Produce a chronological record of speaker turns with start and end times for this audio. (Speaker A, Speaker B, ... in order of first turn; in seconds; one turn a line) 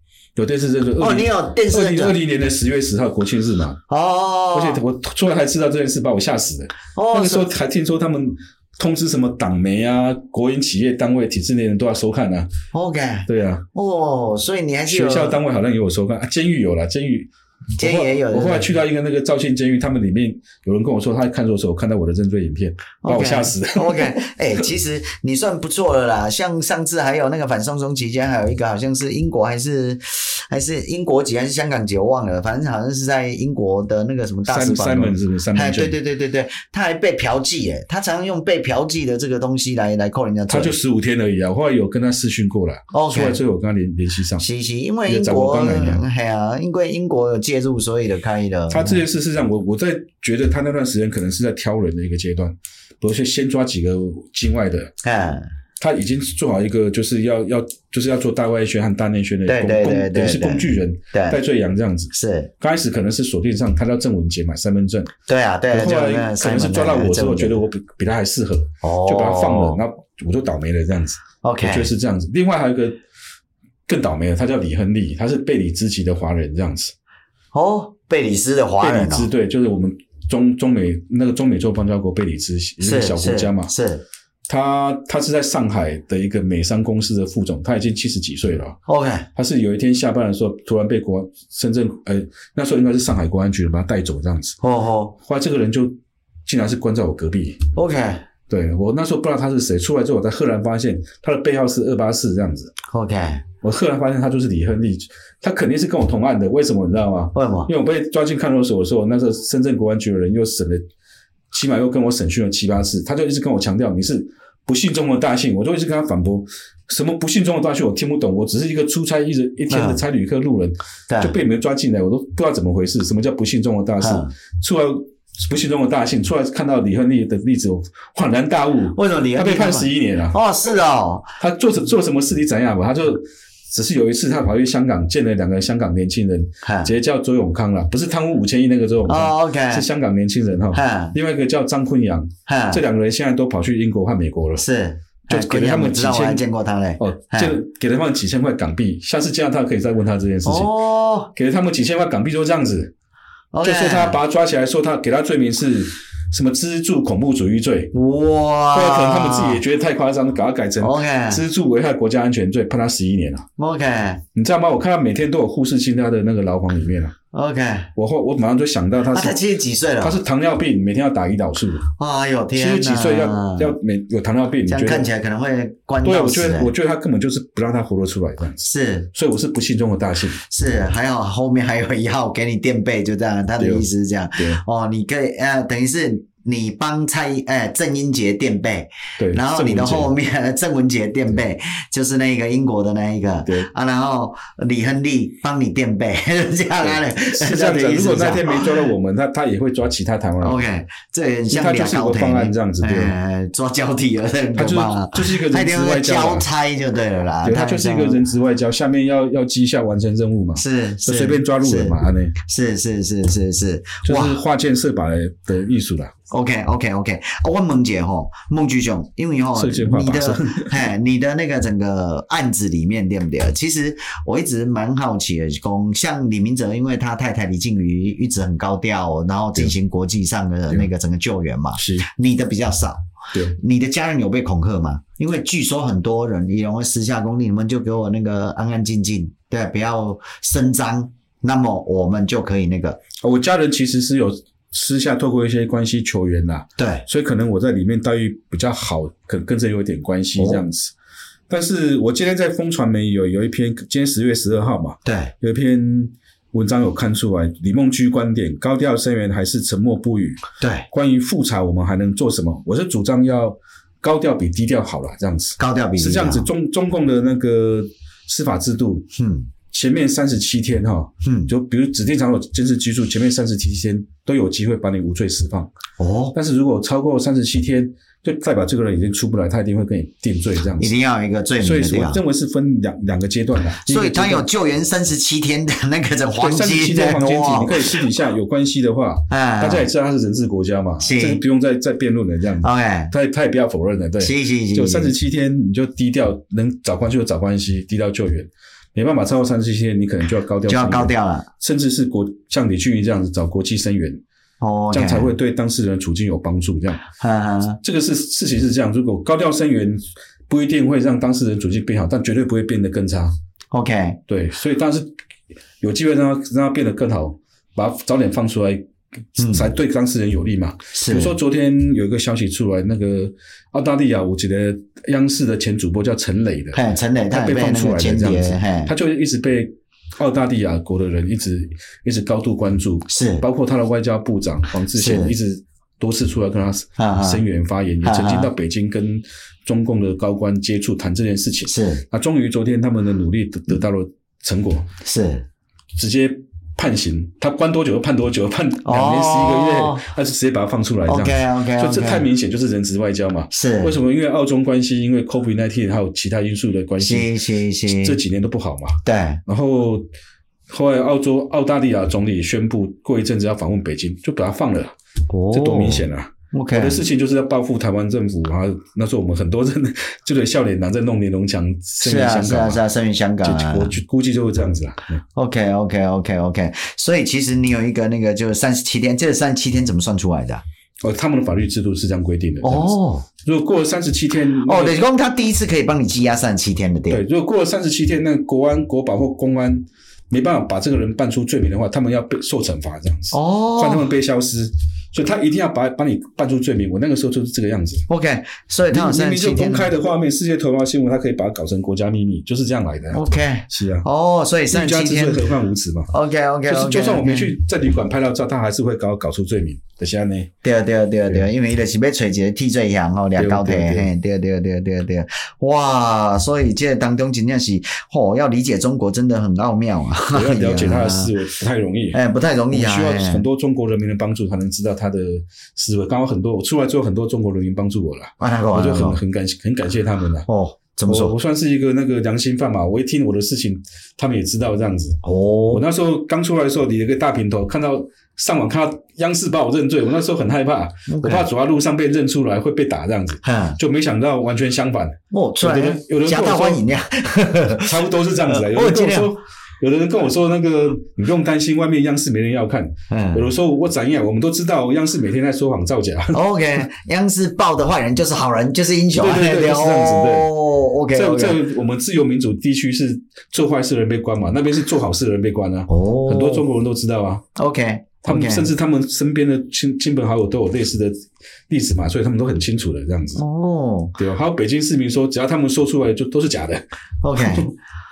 Speaker A: 0.3-3.8
Speaker B: 1.0-2.1
Speaker B: 3.9-4.8
Speaker A: 4.5-12.5
Speaker B: 6.9-7.5
Speaker B: 12.7-15.4
Speaker A: 13.3-13.6
Speaker A: 14.9-24.3
Speaker B: 17.8-18.7
Speaker B: 23.0-40.7
Speaker A: 34.5-36.0
Speaker A: 40.5-44.4
Speaker B: 42.9-43.4
Speaker B: 44.4-49.0
Speaker A: 45.0-46.0
Speaker A: 48.7-54.9
Speaker B: 55.0-55.5
Speaker A: 55.8-65.1
Speaker B: 59.5-61.4
Speaker B: 62.1-62.5
Speaker B: 65.3-67.6
Speaker A: 65.7-73.0
Speaker B: 68.8-69.8
Speaker B: 71.4-71.9
Speaker A: 73.9-76.9
Speaker B: 77.5-79.3
Speaker A: 78.8-83.7
Speaker B: 82.8-84.0
Speaker A: 84.5-88.8
Speaker B: 88.9-89.3
Speaker A: 89.3-94.6
Speaker B: 94.6-95.1
Speaker A: 95.2-95.9
Speaker A: 96.5-97.6
Speaker B: 97.7-98.2
Speaker A: 98.5-102.7
Speaker B: 102.9-103.4
Speaker A: 103.6-110.8
Speaker B: 107.3-107.7
Speaker A: 111.5-130.4
Speaker B: 119.7-120.0
Speaker B: 121.1-121.3
Speaker B: 124.0-124.3
Speaker B: 128.9-131.3
Speaker A: 131.4-144.6
Speaker B: 136.6-136.9
Speaker B: 139.1-139.8
Speaker B: 140.7-141.1
Speaker B: 142.5-142.8
Speaker B: 144.6-147.6
Speaker A: 145.3-146.4
Speaker A: 147.0-150.7
Speaker B: 150.4-151.3
Speaker A: 151.3-152.9
Speaker B: 153.5-154.2
Speaker A: 153.6-157.9
Speaker B: 157.9-159.6
Speaker A: 158.7-163.5
Speaker B: 160.8-161.4
Speaker B: 163.6-164.2
Speaker A: 164.3-167.1
Speaker B: 167.3-167.9
Speaker A: 167.9-169.3
Speaker B: 169.1-170.2
Speaker A: 170.0-171.9
Speaker B: 172.0-173.7
Speaker A: 172.6-175.1
Speaker B: 174.7-176.7
Speaker A: 176.0-180.4
Speaker B: 178.6-179.1
Speaker B: 180.4-198.8
Speaker A: 183.6-183.8
Speaker A: 184.4-184.6
Speaker A: 189.2-190.1
Speaker A: 196.8-200.6
Speaker B: 200.4-208.2
Speaker A: 201.5-203.1
Speaker A: 204.5-206.5
Speaker A: 207.4-212.3
Speaker B: 210.6-214.4
Speaker A: 214.0-216.1
Speaker B: 216.3-243.0
Speaker A: 219.5-220.8
Speaker A: 231.8-232.1
Speaker A: 243.2-250.9
Speaker B: 246.8-247.0
Speaker B: 250.4-250.6
Speaker A: 251.5-269.1
Speaker B: 255.0-255.3
Speaker B: 260.6-260.9
Speaker B: 265.6-266.5
Speaker B: 269.1-269.5
Speaker A: 269.7-275.7
Speaker B: 271.2-271.5
Speaker B: 276.0-276.3
Speaker A: 276.3-280.9
Speaker B: 280.8-282.2
Speaker A: 281.6-284.4
Speaker B: 283.8-288.0
Speaker A: 286.4-304.2
Speaker B: 289.3-289.9
Speaker B: 291.0-291.4
Speaker B: 292.6-293.1
Speaker B: 294.2-295.1
Speaker B: 300.7-301.5
Speaker B: 304.6-305.3
Speaker A: 304.9-307.0
Speaker B: 307.2-307.8
Speaker A: 307.8-313.3
Speaker B: 313.7-314.2
Speaker A: 314.3-315.1
Speaker A: 315.8-318.8
Speaker A: 319.3-344.9
Speaker B: 319.4-319.7
Speaker B: 320.9-321.3
Speaker B: 326.7-328.9
Speaker B: 333.1-333.4
Speaker B: 334.9-335.3
Speaker B: 337.0-337.4
Speaker B: 338.0-338.5
Speaker B: 341.7-342.0
Speaker B: 345.0-345.4
Speaker A: 346.0-357.3
Speaker B: 348.8-350.0
Speaker B: 351.1-352.2
Speaker B: 353.5-353.9
Speaker B: 357.0-358.2
Speaker A: 357.9-360.1
Speaker B: 359.0-359.4
Speaker A: 360.7-364.9
Speaker B: 365.3-367.0
Speaker A: 365.5-372.8
Speaker B: 372.0-373.9
Speaker A: 373.4-375.2
Speaker B: 375.4-380.6
Speaker A: 381.0-385.0
Speaker B: 382.6-383.2
Speaker B: 384.6-387.2
Speaker A: 387.1-398.1
Speaker B: 393.3-394.1
Speaker B: 398.1-399.9
Speaker A: 398.9-404.1
Speaker B: 403.1-405.4
Speaker A: 404.7-406.1
Speaker B: 406.1-407.5
Speaker A: 406.7-410.5
Speaker B: 410.6-421.3
Speaker A: 413.4-414.1
Speaker A: 420.3-422.2
Speaker B: 422.1-423.4
Speaker A: 422.7-430.5
Speaker B: 428.4-429.2
Speaker B: 430.5-431.4
Speaker A: 431.1-446.8
Speaker B: 435.2-435.8
Speaker B: 441.1-441.5
Speaker B: 443.4-443.8
Speaker B: 445.3-449.3
Speaker A: 447.8-456.4
Speaker B: 453.1-453.5
Speaker B: 456.3-461.6
Speaker A: 459.2-460.5
Speaker A: 461.1-467.4
Speaker B: 465.9-466.6
Speaker B: 467.6-468.7
Speaker A: 468.2-471.1
Speaker A: 471.7-473.4
Speaker B: 473.4-474.2
Speaker A: 474.2-476.8
Speaker B: 477.2-477.7
Speaker A: 477.4-477.7